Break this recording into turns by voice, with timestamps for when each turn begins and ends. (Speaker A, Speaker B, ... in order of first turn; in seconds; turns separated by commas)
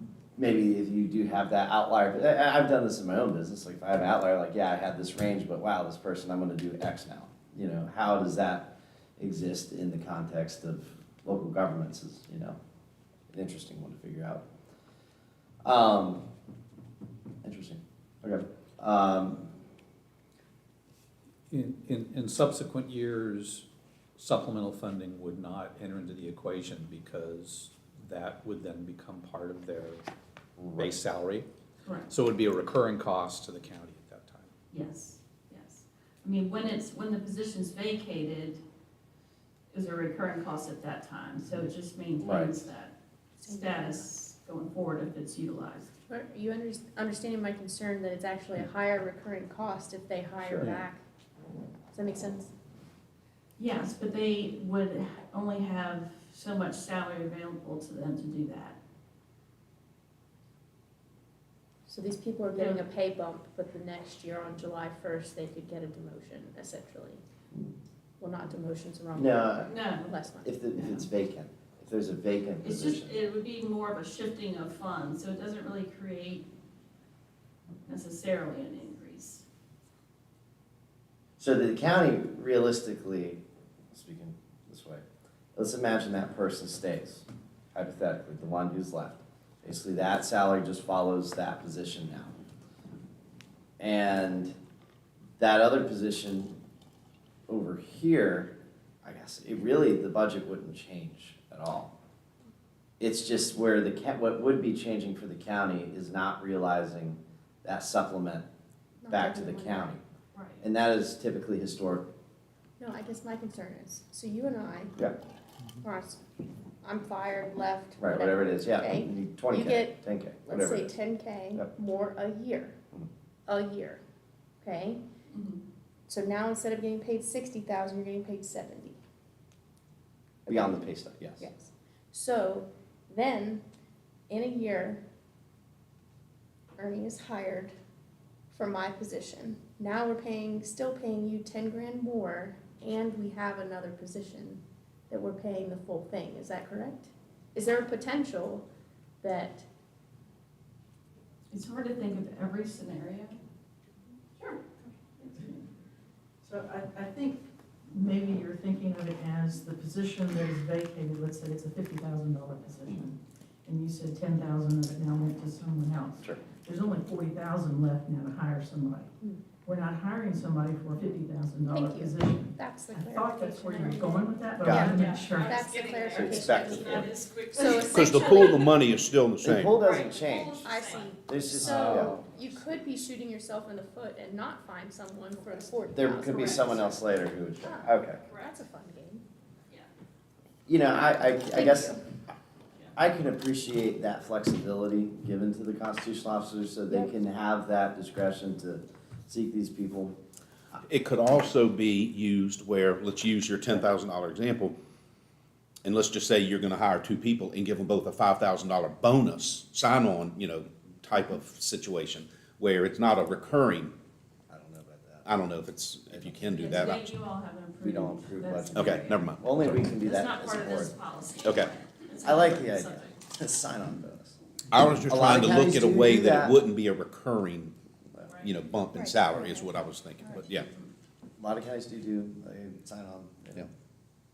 Speaker A: 0.3-12.6, Speaker A: 13.3-14.4, Speaker A: 15.6-16.2, Speaker A: 17.4-19.5, Speaker B: 21.5-30.0, Speaker A: 30.6-30.9, Speaker B: 30.8-31.5, Speaker C: 31.8-32.1, Speaker B: 32.1-34.5, Speaker C: 34.7-38.6, Speaker C: 39.7-45.9, Speaker A: 42.2-42.6, Speaker D: 43.5-44.0, Speaker D: 46.1-51.0, Speaker D: 51.9-52.5, Speaker C: 53.6-58.8, Speaker D: 61.9-67.2, Speaker C: 62.5-62.8, Speaker D: 68.2-70.5, Speaker A: 69.1-69.7, Speaker C: 69.7-70.1, Speaker A: 70.4-73.2, Speaker C: 70.7-71.0, Speaker C: 72.6-76.5, Speaker C: 77.8-79.4, Speaker A: 81.4-83.4, Speaker A: 83.9-85.0, Speaker A: 85.5-92.3, Speaker A: 93.8-94.5, Speaker A: 95.4-96.5, Speaker A: 97.5-101.9, Speaker A: 103.0-108.4, Speaker D: 109.0-110.0, Speaker A: 109.1-110.0, Speaker C: 110.3-110.6, Speaker A: 110.6-112.1, Speaker D: 112.8-115.0, Speaker D: 115.8-116.2, Speaker D: 116.8-122.8, Speaker A: 118.0-120.9, Speaker D: 123.5-124.0, Speaker D: 124.6-125.0, Speaker C: 125.3-125.6, Speaker D: 126.1-129.0, Speaker A: 130.4-131.5, Speaker D: 130.5-130.8, Speaker D: 131.4-133.6, Speaker D: 134.3-135.0, Speaker D: 136.8-137.7, Speaker D: 138.5-148.6, Speaker D: 149.2-149.7, Speaker C: 151.5-153.4, Speaker C: 154.4-154.6, Speaker C: 155.2-155.6, Speaker E: 156.4-169.1, Speaker E: 169.6-175.6, Speaker D: 171.7-178.7, Speaker A: 174.6-174.9, Speaker C: 174.8-178.8, Speaker A: 176.2-176.6, Speaker F: 176.3-177.0, Speaker F: 177.9-179.8, Speaker A: 179.4-180.7, Speaker C: 179.8-181.1, Speaker D: 180.5-187.0, Speaker A: 181.2-182.2, Speaker F: 181.6-182.2, Speaker A: 185.9-188.2, Speaker D: 187.6-189.2, Speaker C: 188.3-188.5, Speaker A: 190.7-192.0, Speaker D: 191.5-192.0, Speaker A: 192.9-200.1, Speaker F: 200.8-204.7, Speaker F: 205.8-213.9, Speaker A: 214.5-215.3, Speaker F: 215.2-217.1, Speaker A: 216.1-216.9, Speaker C: 216.5-219.2, Speaker A: 217.8-220.9, Speaker F: 218.8-219.9, Speaker C: 219.9-223.2, Speaker F: 221.4-221.7, Speaker A: 222.2-224.4, Speaker F: 224.7-227.7, Speaker A: 225.1-226.6, Speaker C: 228.2-228.5, Speaker F: 228.4-230.7, Speaker D: 228.9-229.7, Speaker C: 230.6-230.9, Speaker A: 231.4-233.7